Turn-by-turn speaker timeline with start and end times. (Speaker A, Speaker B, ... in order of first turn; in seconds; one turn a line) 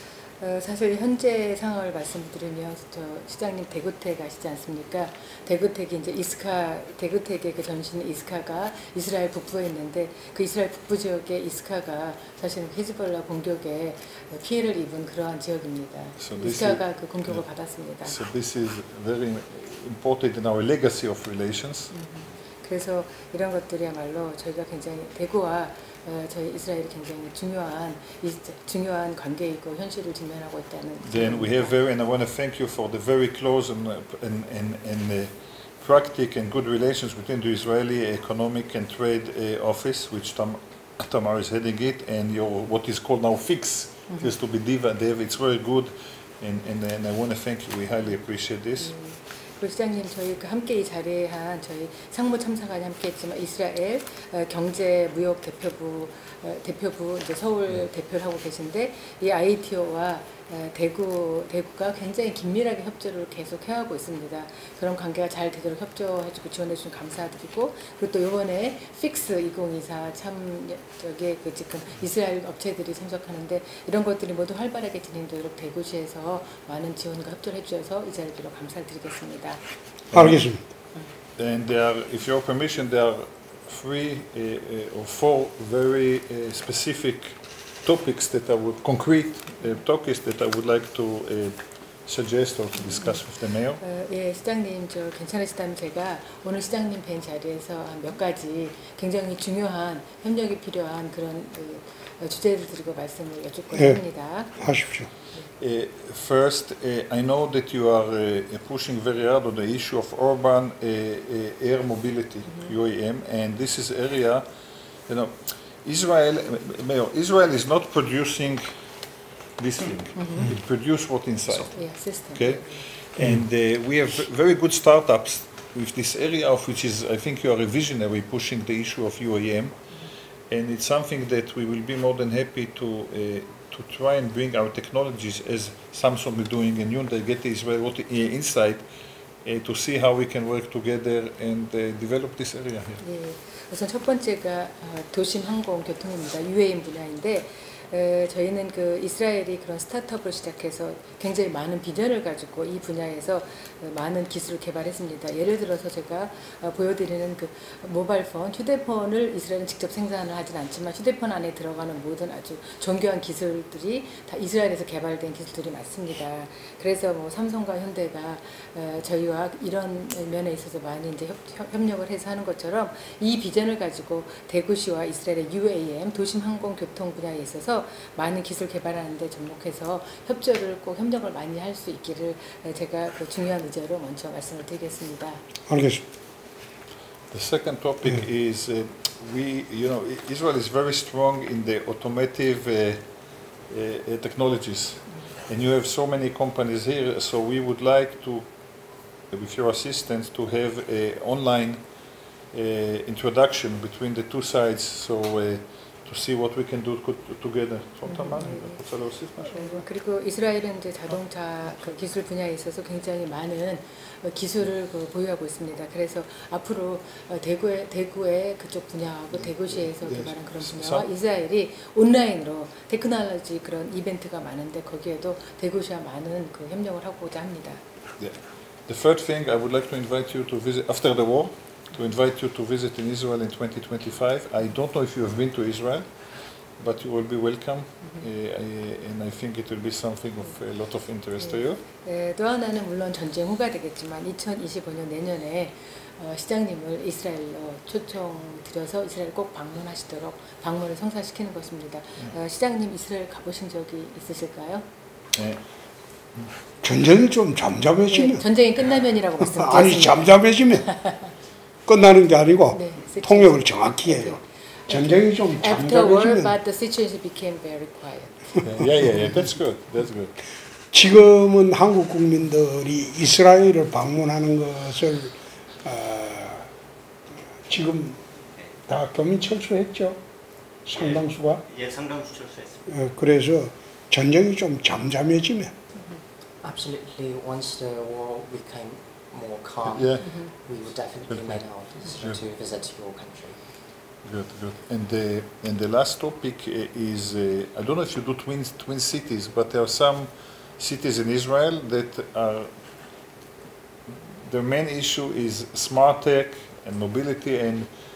Speaker A: 0.4-18.2
Speaker B: 16.2-17.4
Speaker B: 18.1-21.9
Speaker A: 21.9-31.7
Speaker B: 31.0-48.9
Speaker A: 48.8-79.6
Speaker B: 80.1-80.4
Speaker C: 80.1-80.6
Speaker B: 81.4-93.8
Speaker A: 93.8-104.7
Speaker C: 103.7-104.0
Speaker C: 104.5-105.1
Speaker B: 105.6-114.5
Speaker B: 115.1-118.7
Speaker B: 119.6-129.8
Speaker A: 120.2-120.5
Speaker A: 121.7-122.7
Speaker B: 130.5-138.9
Speaker B: 139.4-143.0
Speaker A: 143.0-185.4
Speaker C: 185.7-186.0
Speaker B: 187.3-193.1
Speaker B: 193.7-198.5
Speaker B: 199.3-209.8
Speaker A: 208.1-208.8
Speaker A: 209.4-227.8
Speaker B: 219.4-221.1
Speaker B: 228.2-241.8
Speaker A: 241.4-254.8
Speaker B: 255.3-255.6
Speaker C: 256.8-258.4
Speaker A: 258.1-260.3
Speaker C: 259.4-260.9
Speaker C: 261.9-266.5
Speaker A: 262.7-268.4
Speaker B: 268.6-270.3
Speaker C: 270.9-276.7
Speaker C: 277.7-278.2
Speaker C: 278.9-280.2
Speaker C: 280.9-281.6
Speaker D: 280.9-282.9
Speaker C: 282.9-285.7
Speaker E: 286.6-293.6
Speaker B: 289.9-290.3
Speaker A: 290.2-290.5
Speaker B: 291.3-291.6
Speaker B: 294.2-302.7
Speaker B: 304.4-307.9